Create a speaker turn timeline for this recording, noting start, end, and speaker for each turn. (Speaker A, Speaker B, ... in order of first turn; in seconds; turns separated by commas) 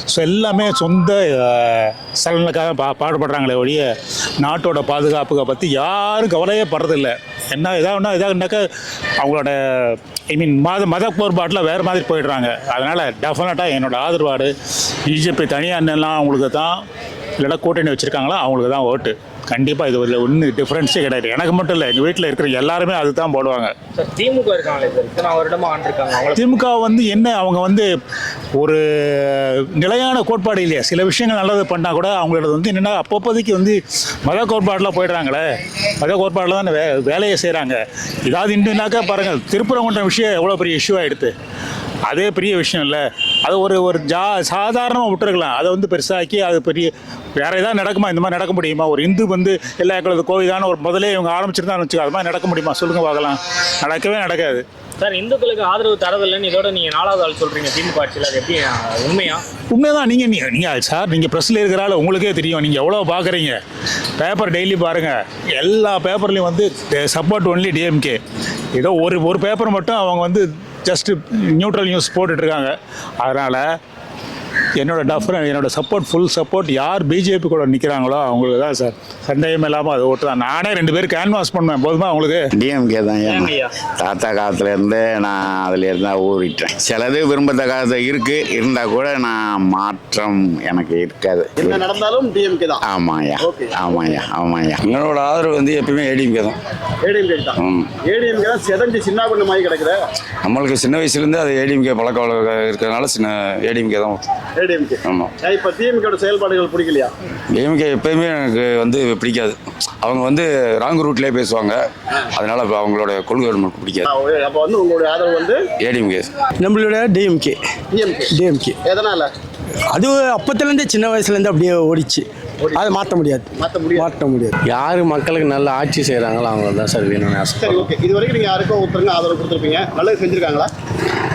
Speaker A: 0.1-3.8, Speaker A: 4.4-8.7, Speaker A: 9.2-14.5, Speaker A: 15.1-16.7, Speaker A: 17.4-23.7, Speaker B: 24.1-26.3, Speaker A: 26.4-27.9, Speaker A: 28.6-35.4, Speaker A: 36.0-41.3, Speaker A: 42.0-54.6, Speaker B: 55.0-59.4, Speaker A: 59.7-63.5, Speaker A: 64.2-68.2, Speaker A: 68.7-73.6, Speaker A: 74.8-82.5, Speaker C: 82.5-91.9, Speaker D: 91.6-92.8, Speaker C: 92.8-94.8, Speaker D: 93.4-93.7, Speaker E: 94.8-96.5, Speaker D: 97.0-100.0, Speaker E: 97.5-97.9, Speaker E: 100.4-104.2, Speaker D: 104.6-107.1, Speaker E: 105.0-105.3, Speaker E: 107.5-111.8, Speaker E: 112.3-114.0, Speaker D: 114.0-115.6, Speaker E: 115.8-116.3, Speaker F: 116.6-117.5, Speaker D: 117.9-118.3, Speaker F: 118.3-118.7, Speaker D: 118.8-119.3, Speaker F: 119.9-123.5, Speaker D: 123.5-124.1, Speaker G: 124.0-127.9, Speaker F: 124.0-124.5, Speaker D: 127.6-130.7